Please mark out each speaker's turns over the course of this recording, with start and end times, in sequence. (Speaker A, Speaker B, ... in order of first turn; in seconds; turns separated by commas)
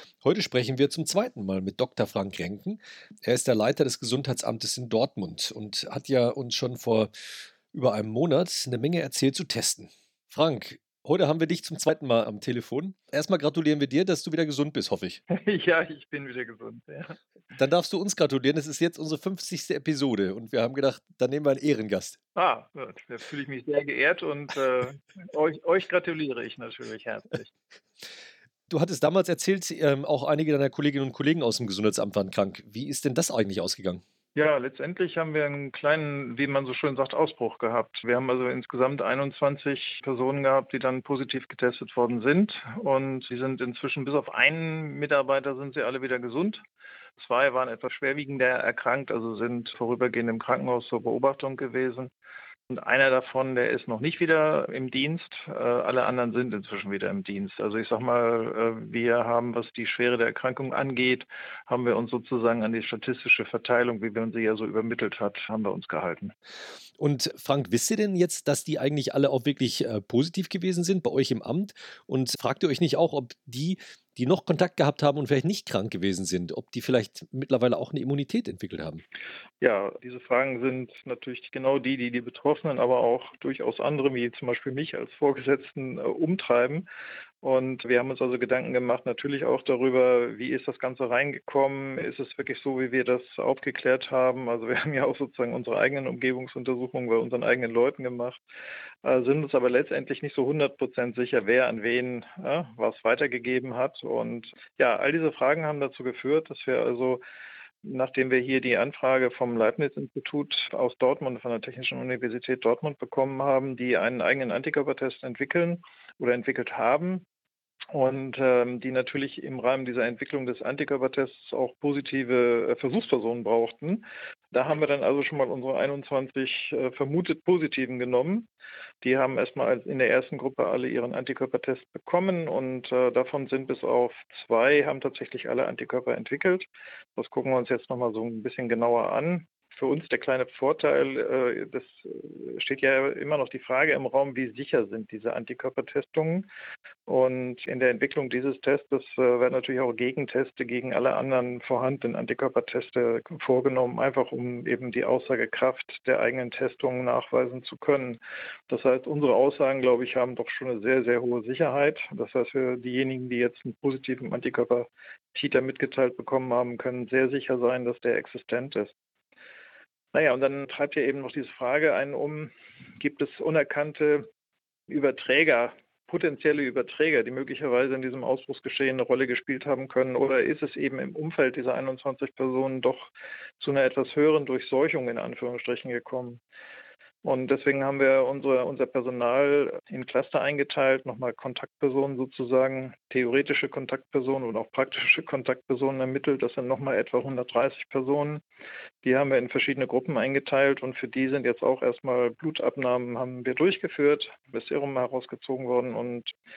Speaker A: 0.2-7.1, Speaker A: 7.7-15.2, Speaker B: 15.3-17.2, Speaker A: 17.6-22.2, Speaker B: 22.3-27.5, Speaker A: 28.7-34.0, Speaker B: 34.3-46.6, Speaker B: 47.2-52.1, Speaker B: 52.7-66.3, Speaker A: 67.0-79.0, Speaker B: 79.6-86.8, Speaker B: 87.4-98.4, Speaker B: 99.0-107.2, Speaker B: 107.8-117.2, Speaker B: 117.9-128.5, Speaker B: 129.0-146.5, Speaker B: 147.1-168.9, Speaker B: 170.1-174.3, Speaker B: 174.9-186.4, Speaker B: 187.2-198.4, Speaker B: 199.0-206.3